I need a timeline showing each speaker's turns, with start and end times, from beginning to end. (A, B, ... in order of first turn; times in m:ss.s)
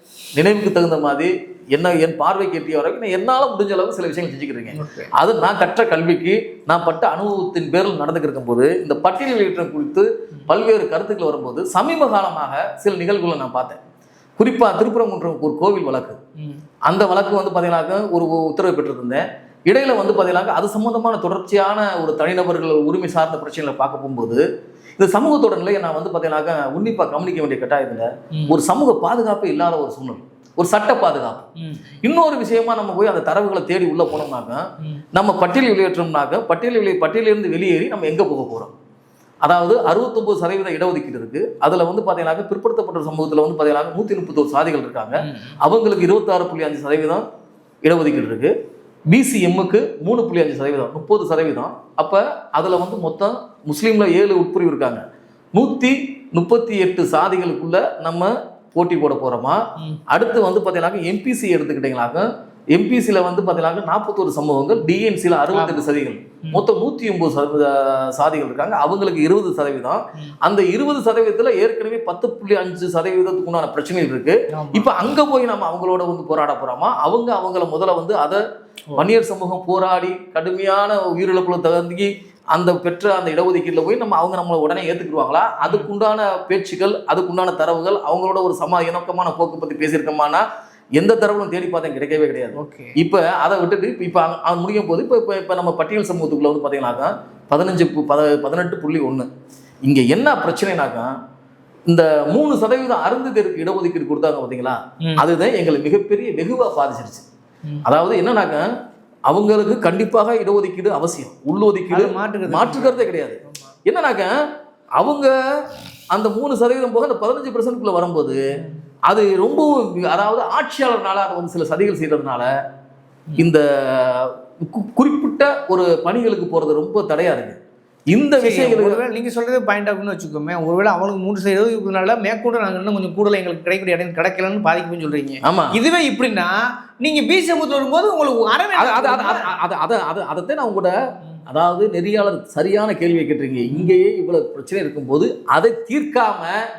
0:00.4-0:13.8 A
0:04.8-0:05.1 B
0:14.4-0:16.2 A
0:16.9-0:24.4 A
0:25.0-0:31.5 A
0:31.6-0:32.0 B
0:32.0-0:38.7 A
0:39.4-0:47.2 A
0:45.2-0:45.6 B
0:47.8-0:48.5 A
0:49.1-0:55.0 A
0:55.6-1:18.4 A
1:05.5-1:05.9 B
1:14.5-1:14.9 B
1:19.0-1:30.5 A
1:25.6-1:25.9 B
1:31.0-1:39.3 A
1:32.6-1:33.0 B
1:39.9-1:41.1 A
1:41.9-1:47.3 A
1:47.8-1:48.7 A
1:49.3-1:54.4 A
1:51.9-1:53.7 B
1:55.0-1:55.3 A
1:56.1-1:58.6 A
1:59.1-2:02.5 A
2:03.4-2:07.6 A
2:08.1-2:09.0 A
2:08.4-2:19.5 B
2:15.4-2:15.8 A
2:18.8-2:20.9 A
2:21.5-2:26.6 A
2:23.7-2:24.0 B